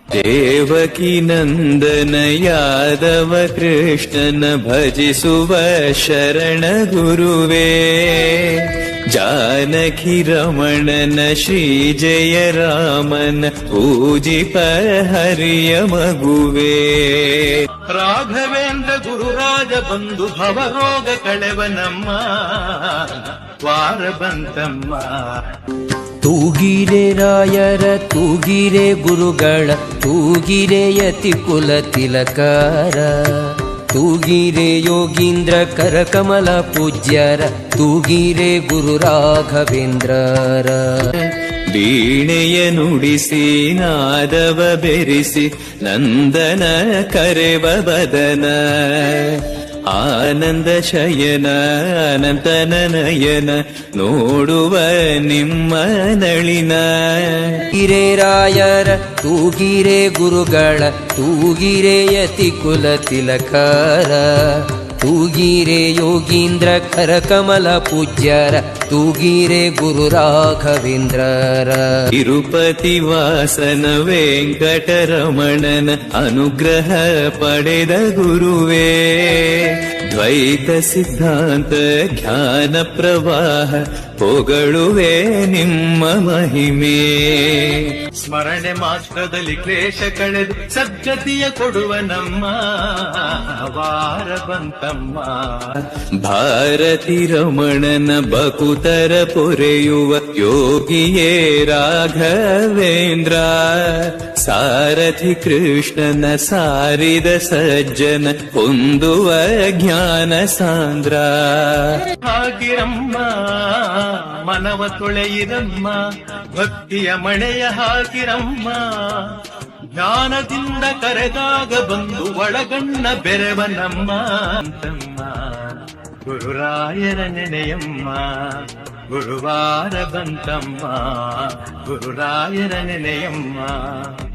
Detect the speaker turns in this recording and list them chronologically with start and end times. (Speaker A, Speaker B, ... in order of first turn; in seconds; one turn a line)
Speaker A: 0.1-17.7
Speaker B: 17.9-25.5
Speaker C: 26.2-41.2
Speaker A: 41.7-57.7
Speaker C: 57.7-72.1
Speaker A: 72.1-88.0
Speaker B: 88.2-95.8
Speaker A: 96.2-112.0
Speaker B: 112.3-116.0
Speaker B: 116.5-119.4
Speaker B: 120.0-134.2